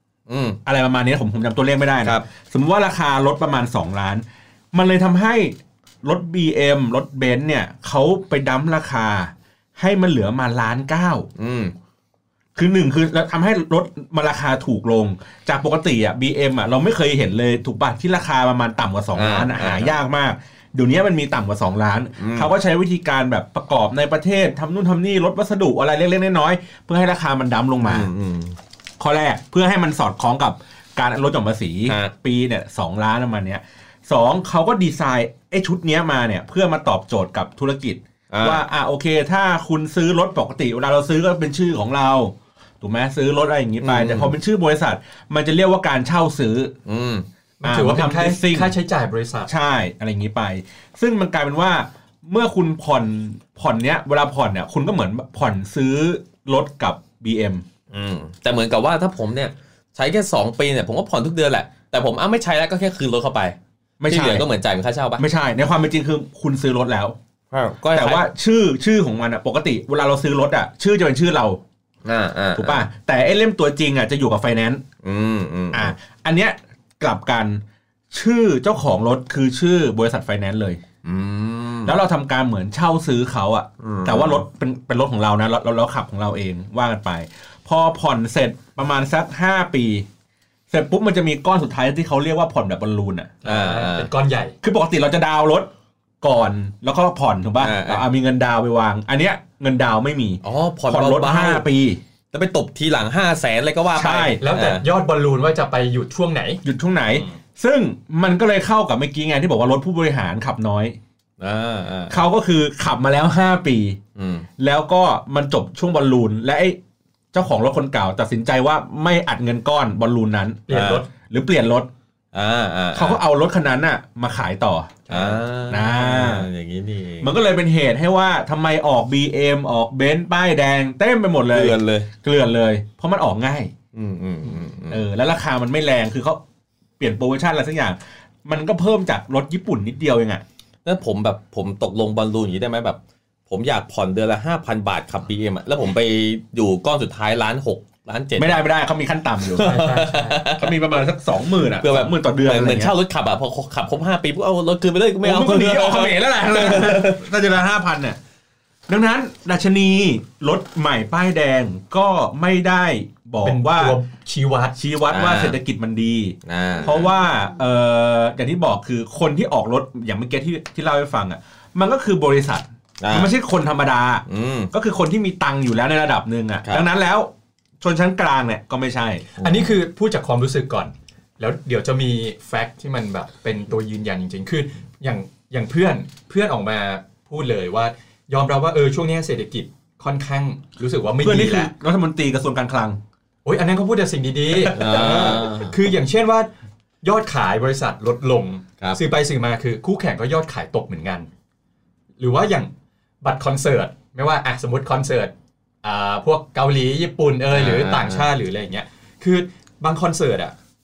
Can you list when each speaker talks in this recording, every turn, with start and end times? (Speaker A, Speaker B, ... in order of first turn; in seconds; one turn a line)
Speaker A: 0.3-0.6
Speaker B: 0.6-11.3
Speaker A: 11.3-11.7
Speaker B: 12.5-28.1
Speaker A: 19.1-19.9
Speaker A: 22.2-22.5
Speaker A: 27.9-28.6
Speaker B: 29.0-46.7
Speaker A: 31.9-32.1
Speaker A: 38.3-38.6
Speaker A: 43.8-44.3
Speaker A: 46.9-47.2
Speaker C: 47.6-49.5
Speaker B: 47.6-48.7
Speaker B: 49.5-57.6
Speaker A: 57.9-65.2
Speaker B: 64.0-64.5
Speaker B: 65.2-67.2
Speaker A: 67.5-68.3
Speaker B: 67.9-71.6
Speaker A: 72.0-72.8
Speaker B: 72.5-74.8
Speaker A: 75.0-75.9
Speaker B: 75.7-80.8
Speaker A: 81.0-81.9
Speaker B: 81.8-90.1
Speaker A: 83.8-84.4
Speaker B: 90.7-93.3
Speaker C: 93.4-94.6
Speaker A: 93.4-94.1
Speaker B: 94.6-102.0
Speaker A: 97.6-98.0
Speaker A: 100.4-101.6
Speaker A: 102.3-104.8
Speaker B: 103.9-104.4
Speaker C: 104.3-107.4
Speaker B: 106.6-111.0
Speaker A: 111.4-112.2
Speaker B: 112.1-114.0
Speaker A: 114.1-114.5
Speaker B: 114.6-116.8
Speaker B: 117.3-121.9
Speaker C: 120.7-121.1
Speaker A: 120.7-121.0
Speaker A: 122.3-123.2
Speaker B: 122.9-125.0
Speaker C: 125.1-125.4
Speaker A: 125.1-127.3
Speaker B: 125.7-126.5
Speaker B: 127.2-133.7
Speaker A: 131.5-132.1
Speaker A: 133.9-135.0
Speaker B: 134.9-136.4
Speaker B: 137.0-140.4
Speaker A: 140.8-148.6
Speaker B: 148.3-149.8
Speaker A: 149.5-150.8
Speaker C: 149.6-150.4
Speaker B: 150.5-152.9
Speaker A: 151.7-157.2
Speaker B: 155.2-158.2
Speaker B: 158.9-164.0
Speaker C: 163.4-164.8
Speaker B: 164.7-179.2
Speaker A: 165.1-165.6
Speaker A: 166.4-167.1
Speaker A: 173.0-173.3
Speaker A: 174.3-174.7
Speaker C: 179.4-191.7
Speaker A: 179.4-179.7
Speaker B: 191.2-193.0
Speaker C: 193.4-196.5
Speaker B: 194.5-195.5
Speaker A: 194.6-195.7
Speaker C: 197.0-201.3
Speaker C: 202.2-202.7
Speaker C: 203.2-210.5
Speaker A: 207.5-208.3